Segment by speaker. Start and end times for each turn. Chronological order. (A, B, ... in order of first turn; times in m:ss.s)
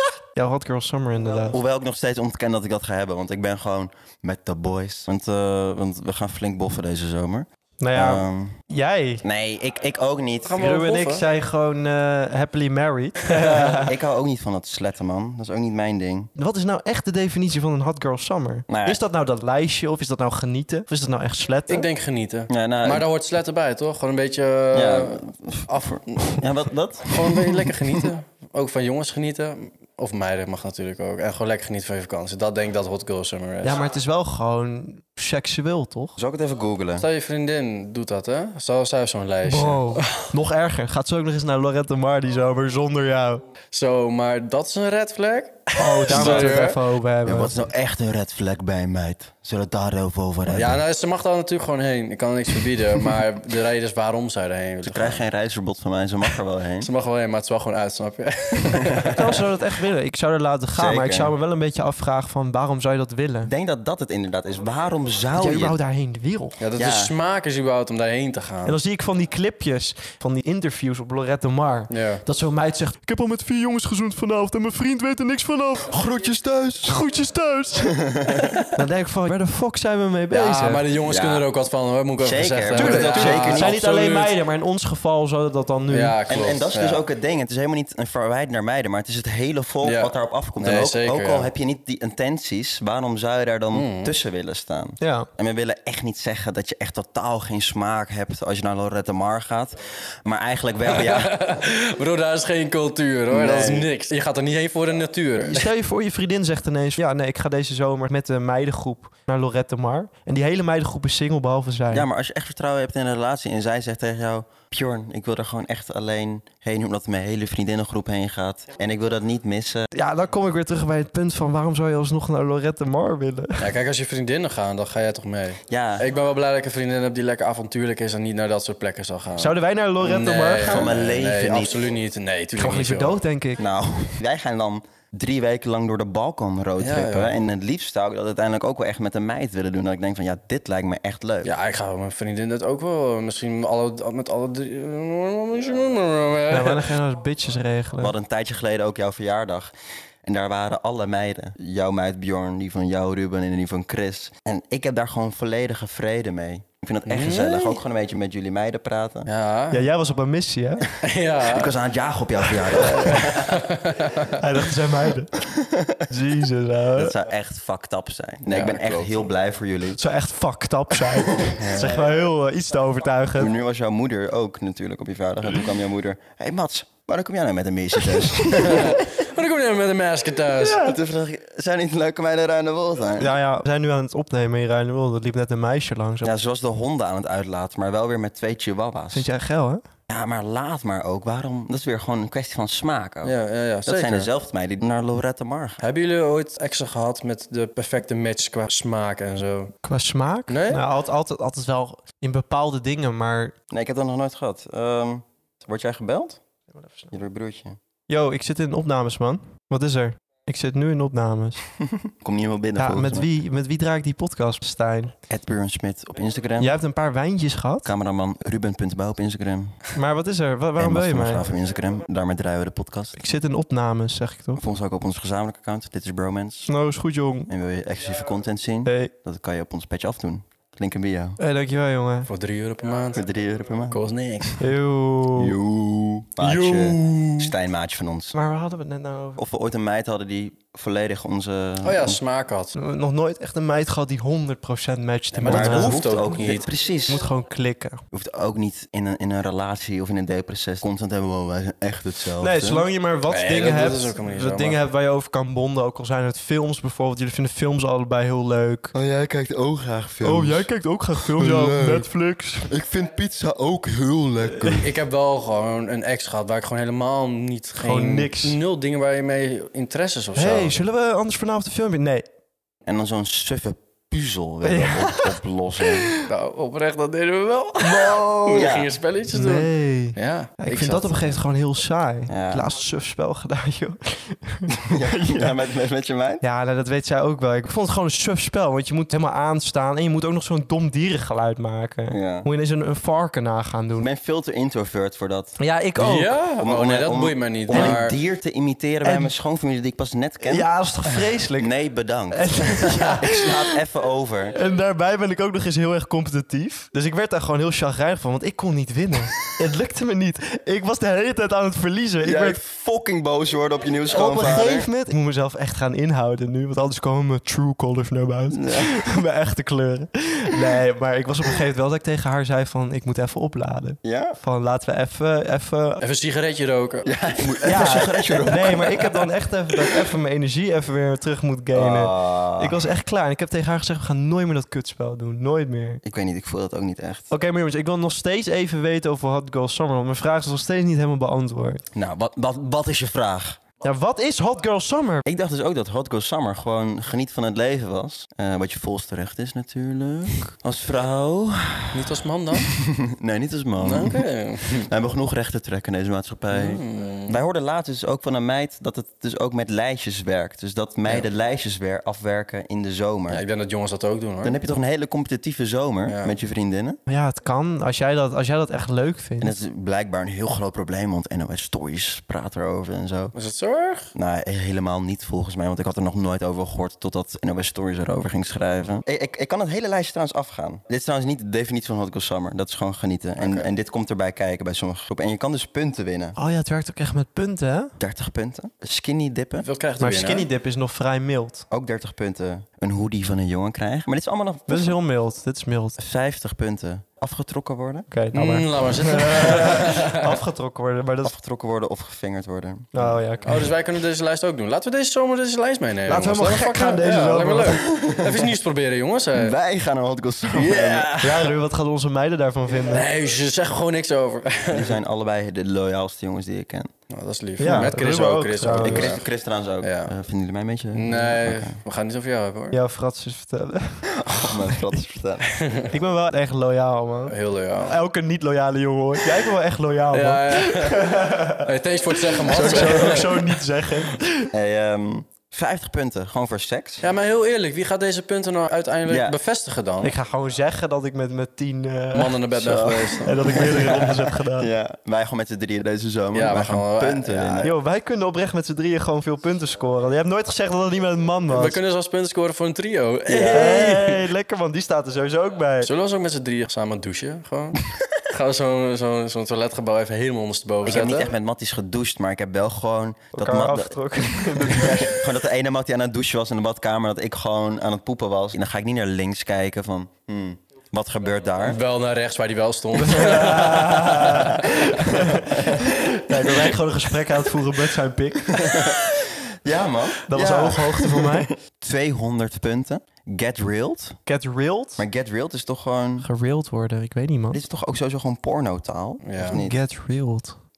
0:00.4-0:01.6 A
0:01.5-0:08.6 B
0:07.8-0:09.2 A
0:09.2-0:10.6 B
0:10.5-0:11.3 C
0:10.6-0:13.9 A
0:13.3-0:13.7 C
0:13.8-0:16.3 B
0:16.4-0:21.9 A
0:18.7-0:19.0 B
0:21.7-0:26.5 C
0:22.5-0:23.1 B
0:24.7-0:28.1 B
0:27.0-0:33.8 C
0:33.6-0:36.2 A
0:36.2-0:37.1 B
0:37.0-0:40.3 C
0:39.4-0:43.4 A
0:43.7-0:46.8 C
0:45.8-0:47.6 A
0:46.1-0:46.7 B
0:47.2-0:50.8 B
0:50.5-0:55.2 C
0:54.8-0:56.9 B
0:56.8-0:59.2 C
0:59.1-1:03.5 A
1:00.8-1:01.3 B
1:03.5-1:05.8 B
1:05.4-1:06.6 A
1:06.6-1:08.8 C
1:06.8-1:07.1 B
1:08.6-1:16.0 A
1:11.9-1:12.2 C
1:15.9-1:17.0 B
1:16.8-1:18.0 A
1:17.9-1:18.6 B
1:18.7-1:20.8 A
1:20.3-1:24.4 C
1:21.0-1:21.5 B
1:22.2-1:23.8 B
1:22.8-1:26.2 A
1:25.9-1:27.0 C
1:26.3-1:41.4 B
1:29.8-1:31.5 C
1:33.7-1:34.1 C
1:35.0-1:35.3 A
1:40.9-1:45.7 C
1:43.3-1:43.9 B
1:45.4-1:52.1 A
1:51.9-1:59.9 B
1:59.9-2:03.7 A
2:03.6-2:13.2 C
2:05.7-2:06.1 B
2:09.4-2:10.9 A
2:10.6-2:11.9 B
2:12.6-2:13.6 A
2:13.6-2:21.5 B
2:16.8-2:17.3 C
2:21.4-2:26.9 C
2:26.5-2:28.2 A
2:28.0-2:29.7 B
2:30.2-2:39.3 B
2:37.1-2:37.8 C
2:39.3-2:39.9 C
2:39.7-2:40.9 A
2:41.0-2:41.8 C
2:41.4-2:43.7 B
2:42.7-2:44.4 C
2:44.4-2:45.4 A
2:45.4-2:46.0 B
2:46.1-2:47.2 A
2:47.0-2:50.0 B
2:48.5-2:49.3 C
2:50.0-2:53.5 A
2:51.6-2:52.1 C
2:53.4-2:59.0 B
2:58.6-3:00.9 C
3:00.6-3:01.0 A
3:00.8-3:03.3 B
3:03.2-3:06.3 A
3:06.2-3:09.3 B
3:09.1-3:09.8 A
3:10.1-3:13.3 B
3:13.2-3:14.3 C
3:13.9-3:15.8 B
3:15.8-3:19.7 C
3:19.8-3:23.6 A
3:20.5-3:20.8 C
3:23.7-3:26.4 B
3:27.1-3:27.8 B
3:28.1-3:31.6 A
3:31.8-3:33.3 B
3:32.8-3:35.2 A
3:35.3-3:36.7 B
3:36.6-3:37.9 A
3:37.8-3:39.8 B
3:40.0-3:41.4 A
3:40.8-3:43.2 B
3:43.2-3:44.6 A
3:44.6-3:46.7 B
3:46.7-3:47.5 A
3:47.5-3:51.4 B
3:48.9-3:49.1 A
3:51.4-3:52.3 A
3:52.3-3:53.2 C
3:53.1-3:54.0 B
3:53.9-3:54.6 C
3:54.6-3:55.6 A
3:55.4-3:58.4 B
3:56.4-3:57.5 C
3:58.4-3:59.4 A
3:59.4-4:02.2 B
4:01.8-4:02.8 C
4:02.8-4:06.1 A
4:05.4-4:06.6 C
4:05.5-4:07.2 B
4:07.1-4:08.0 A
4:08.1-4:12.9 B
4:12.4-4:18.9 A
4:13.3-4:14.8 C
4:18.9-4:22.1 B
4:20.2-4:22.7 A
4:22.7-4:24.9 B
4:24.8-4:30.8 C
4:27.8-4:28.6 A
4:30.4-4:32.3 A
4:32.9-4:36.1 B
4:34.6-4:36.3 A
4:36.2-4:41.4 C
4:37.8-4:38.7 A
4:38.5-4:39.0 B
4:39.3-4:45.6 A
4:42.3-4:42.7 B
4:44.8-4:46.4 B
4:46.4-4:54.1 A
4:52.1-4:52.5 B
4:54.0-4:55.6 B
4:55.6-4:56.4 A
4:56.0-4:58.2 C
4:56.6-5:00.7 B
4:57.7-4:58.0 A
4:59.0-4:59.3 A
5:00.4-5:01.7 A
5:01.6-5:04.6 B
5:02.3-5:03.8 A
5:04.6-5:12.6 A
5:12.2-5:14.9 B
5:14.1-5:26.0 A
5:18.5-5:19.1 B
5:24.0-5:24.4 B
5:26.0-5:27.1 C
5:27.0-5:30.1 B
5:27.6-5:36.0 A
5:31.7-5:32.8 B
5:36.0-5:37.3 B
5:37.3-5:41.8 A
5:41.9-5:43.6 B
5:43.8-5:45.2 A
5:45.2-6:03.4 B
5:51.9-5:52.7 C
5:53.8-5:54.9 C
5:56.5-5:57.4 C
6:03.3-6:04.6 C
6:04.4-6:07.0 B
6:06.1-6:06.3 C
6:07.1-6:09.6 A
6:09.4-6:13.3 B
6:13.3-6:14.1 C
6:14.1-6:26.4 B
6:23.4-6:23.7 C
6:26.4-6:28.0 A
6:28.0-6:29.7 B
6:29.6-6:30.5 C
6:30.0-6:31.6 A
6:31.7-6:35.0 B
6:34.7-6:36.0 A
6:36.0-6:38.1 B
6:38.1-6:41.3 A
6:38.3-6:40.4 C
6:41.2-6:43.2 B
6:42.9-6:43.6 A
6:43.4-6:49.6 C
6:46.1-6:47.8 A
6:47.9-6:48.5 B
6:49.3-6:51.2 B
6:50.5-6:51.6 C
6:51.2-6:53.1 A
6:52.8-6:55.0 C
6:54.7-6:56.9 B
6:57.1-6:59.3 C
6:57.6-6:59.2 A
6:57.6-6:58.0 B
6:58.8-7:01.8 B
6:59.8-7:00.1 C
7:00.9-7:02.8 C
7:02.7-7:05.0 A
7:04.1-7:05.5 B
7:05.5-7:05.9 C
7:05.9-7:14.5 A
7:07.3-7:08.0 C
7:10.1-7:13.6 C
7:14.5-7:17.1 B
7:17.0-7:20.1 C
7:19.1-7:19.4 B
7:20.0-7:22.4 A
7:22.1-7:24.0 C
7:22.6-7:27.7 B
7:23.2-7:24.7 A
7:26.3-7:27.8 C
7:27.6-7:31.8 A
7:31.5-7:34.2 C
7:33.3-7:35.9 A
7:35.8-7:41.3 C
7:40.8-7:51.8 B
7:43.3-7:45.3 A
7:51.6-7:55.1 C
7:53.0-7:58.8 A
7:55.4-7:56.2 B
7:58.5-7:59.1 B
7:59.6-8:04.2 B
8:00.3-8:01.5 A
8:04.3-8:05.0 A
8:05.0-8:06.3 B
8:06.2-8:07.6 A
8:07.5-8:09.8 B
8:09.2-8:09.6 C
8:09.5-8:10.6 A